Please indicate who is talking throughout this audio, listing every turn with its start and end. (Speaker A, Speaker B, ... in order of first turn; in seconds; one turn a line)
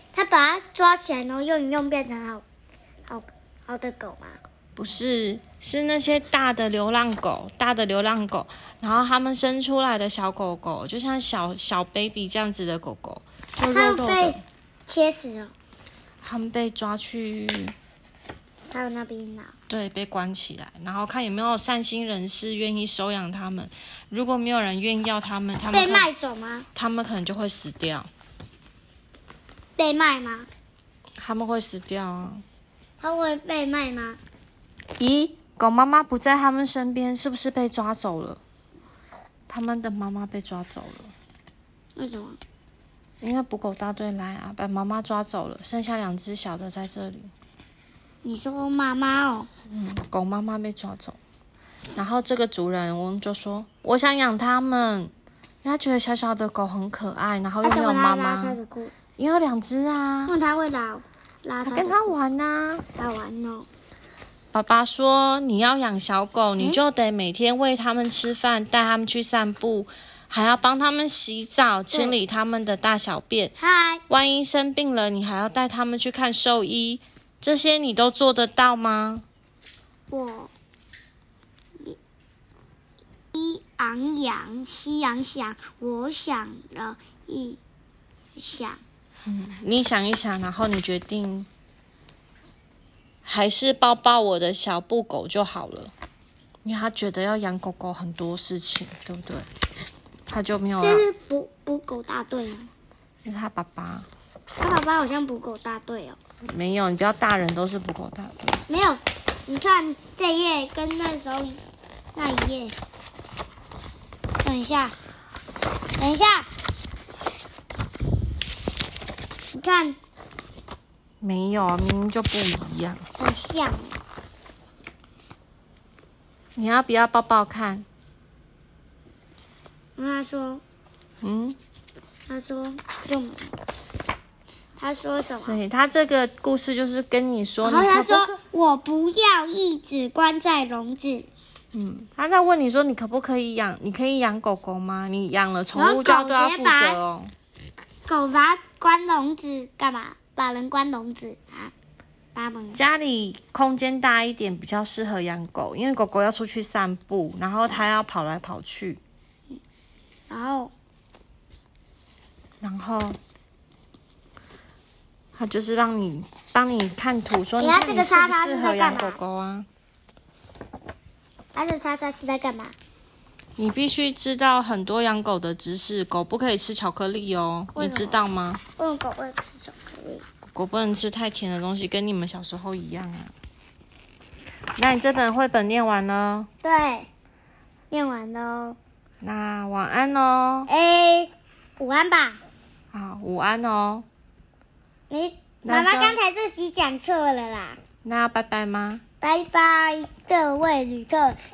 Speaker A: 0.1-2.4
Speaker A: 3.1-4.4
Speaker B: 4.8-14.4
Speaker A: 13.7-15.5
Speaker B: 16.2-17.8
Speaker A: 18.7-19.5
Speaker B: 19.7-26.1
Speaker A: 25.7-26.7
Speaker B: 26.8-28.1
Speaker A: 29.8-30.5
Speaker B: 31.2-32.4
Speaker A: 33.0-34.2
Speaker B: 35.0-38.4
Speaker B: 39.5-41.1
Speaker A: 42.0-42.4
Speaker B: 43.2-47.3
Speaker A: 48.2-49.5
Speaker B: 49.7-51.2
Speaker B: 52.0-55.1
Speaker B: 55.6-58.6
Speaker A: 57.6-59.0
Speaker B: 59.2-60.4
Speaker A: 60.3-62.2
Speaker B: 61.6-62.9
Speaker A: 63.0-63.7
Speaker B: 64.5-73.6
Speaker A: 71.9-72.2
Speaker A: 73.6-74.0
Speaker B: 74.1-79.2
Speaker A: 80.1-80.5
Speaker A: 83.3-87.6
Speaker A: 88.4-88.8
Speaker B: 89.3-91.5
Speaker B: 93.2-95.9
Speaker B: 96.6-99.5
Speaker B: 100.3-101.1
Speaker A: 100.8-102.7
Speaker B: 103.2-104.1
Speaker A: 104.6-106.2
Speaker B: 106.4-108.6
Speaker A: 108.7-111.6
Speaker A: 112.2-112.8
Speaker A: 114.4-115.0
Speaker A: 116.0-116.5
Speaker A: 119.5-120.0
Speaker B: 121.2-123.1
Speaker A: 123.2-124.0
Speaker B: 126.6-127.9
Speaker A: 130.0-130.6
Speaker B: 131.2-131.6
Speaker A: 132.3-133.6
Speaker A: 134.8-135.6
Speaker B: 135.4-138.4
Speaker A: 137.6-141.3
Speaker B: 141.7-147.3
Speaker A: 145.7-147.0
Speaker A: 148.1-151.7
Speaker A: 152.3-152.8
Speaker B: 152.7-159.0
Speaker A: 160.3-160.7
Speaker B: 162.6-163.2
Speaker B: 165.3-169.7
Speaker A: 167.6-169.2
Speaker A: 171.5-172.7
Speaker B: 173.6-178.6
Speaker A: 177.8-178.2
Speaker A: 178.8-180.2
Speaker B: 180.5-183.3
Speaker B: 184.8-186.5
Speaker A: 186.6-187.1
Speaker A: 187.9-188.8
Speaker B: 189.2-190.7
Speaker A: 190.7-192.4
Speaker B: 192.9-194.1
Speaker A: 195.1-197.8
Speaker B: 195.7-196.2
Speaker B: 198.0-199.0
Speaker A: 199.2-201.4